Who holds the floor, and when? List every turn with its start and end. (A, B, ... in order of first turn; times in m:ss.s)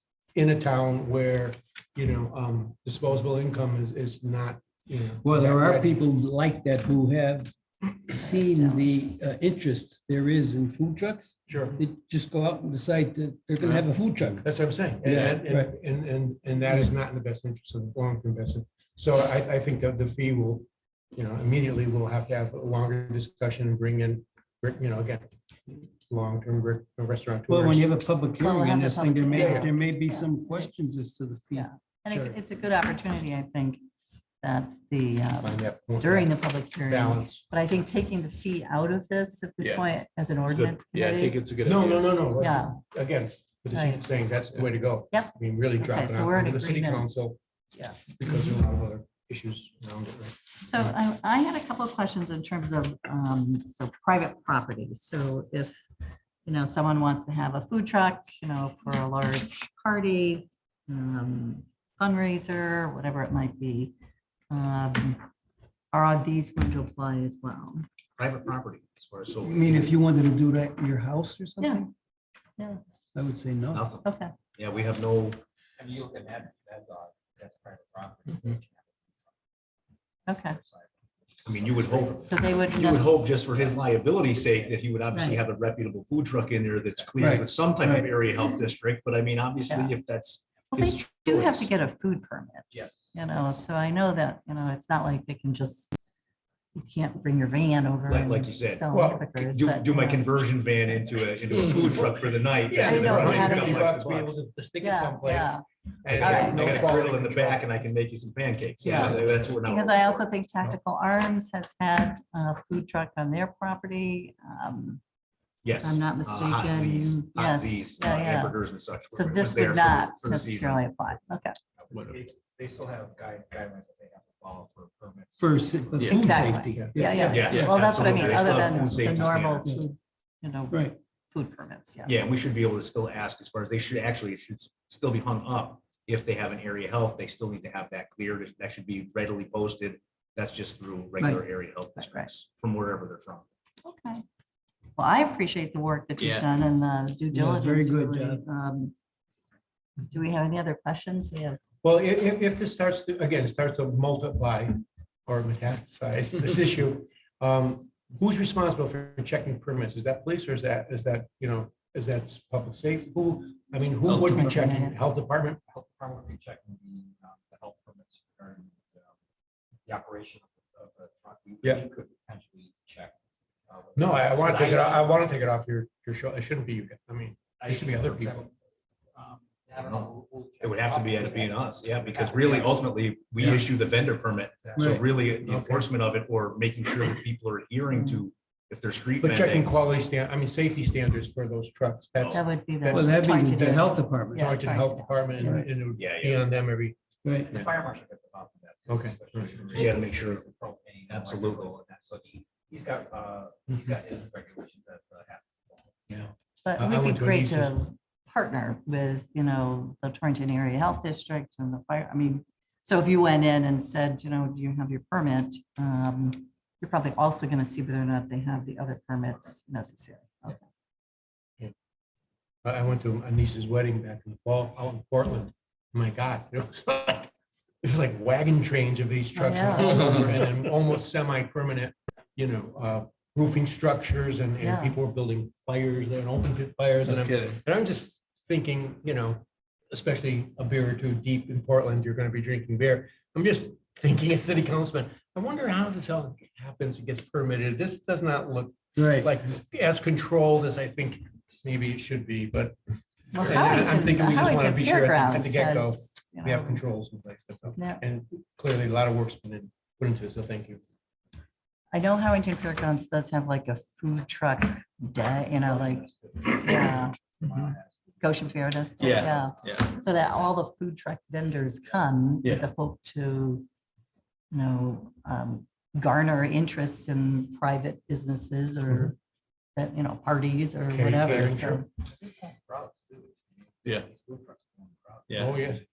0:00.4-0:05.9 A
0:05.2-0:07.5 B
0:08.0-0:14.5 B
0:08.2-0:08.8 C
0:11.5-0:11.8 A
0:14.4-0:27.9 A
0:15.0-0:15.7 B
0:27.5-0:32.4 B
0:28.4-0:31.0 C
0:29.3-0:29.7 A
0:31.5-0:33.8 C
0:34.4-0:41.4 C
0:35.4-0:37.5 A
0:39.6-0:39.9 D
0:40.5-0:42.2 D
0:41.6-0:47.4 A
0:42.4-0:42.8 C
0:43.7-0:44.0 C
0:45.1-0:48.1 C
0:48.1-0:50.9 A
0:50.6-0:55.8 C
0:56.5-1:03.9 C
1:04.5-1:05.2 C
1:05.9-1:07.9 C
1:08.2-1:09.9 E
1:09.4-1:11.9 B
1:11.6-1:11.9 C
1:13.2-1:13.8 B
1:13.7-1:15.4 E
1:14.0-1:14.4 C
1:15.8-1:19.3 F
1:20.3-1:20.6 C
1:20.3-1:24.8 F
1:21.4-1:31.7 E
1:22.2-1:23.2 C
1:25.1-1:25.4 C
1:26.8-1:27.4 F
1:27.2-1:28.1 B
1:29.7-1:30.0 C
1:30.7-1:35.9 C
1:32.7-1:33.2 F
1:36.8-1:41.1 C
1:38.1-1:44.4 E
1:38.9-1:39.2 A
1:42.7-1:47.7 A
1:42.8-1:43.8 C
1:44.8-1:45.6 C
1:46.1-1:50.3 E
1:46.2-1:47.0 C
1:48.8-1:55.0 C
1:55.6-2:00.9 E
1:55.8-1:58.6 C
1:59.1-2:01.6 C
2:01.8-2:06.3 F
2:01.9-2:02.2 D
2:05.4-2:07.7 B
2:06.0-2:06.4 D
2:06.1-2:12.2 C
2:06.8-2:08.8 F
2:07.2-2:09.9 E
2:07.5-2:08.3 D
2:10.7-2:11.0 B
2:12.1-2:23.4 E
2:22.0-2:22.3 C
2:23.8-2:24.2 C
2:25.0-2:28.9 C
2:26.2-2:26.5 D
2:27.3-2:28.4 B
2:30.1-2:31.6 C
2:31.8-2:45.6 A
2:44.3-2:45.0 C
2:45.7-2:49.1 F
2:49.9-2:53.2 F
2:53.7-2:55.2 F
2:54.0-2:58.5 A
2:57.6-2:58.5 F
2:59.2-3:02.9 F
3:00.6-3:09.7 E
3:03.4-3:03.7 A
3:04.8-3:05.9 A
3:04.8-3:05.0 B
3:07.9-3:08.2 C
3:09.2-3:13.2 A
3:12.3-3:15.6 C
3:12.9-3:14.4 B
3:14.4-3:17.7 A
3:16.0-3:16.4 E
3:17.2-3:17.5 B
3:17.4-3:25.9 F
3:18.9-3:20.0 A
3:19.7-3:20.4 E
3:21.1-3:21.8 E
3:26.1-3:27.8 A
3:26.6-3:40.6 C
3:42.6-3:47.3 A
3:47.8-4:12.8 A
3:49.4-3:50.4 C
3:54.6-3:55.0 C
3:57.1-3:57.6 D
4:09.0-4:09.3 B
4:13.3-4:16.8 C
4:13.4-4:20.8 A
4:13.4-4:13.8 D
4:17.8-4:18.0 C
4:21.9-4:27.3 C
4:25.4-4:29.9 F
4:28.2-4:33.7 C
4:29.0-4:30.0 D
4:34.5-4:39.2 C
4:39.8-4:41.9 C
4:40.9-4:41.9 A
4:42.1-4:45.8 F
4:45.3-4:45.6 D
4:45.4-4:45.8 A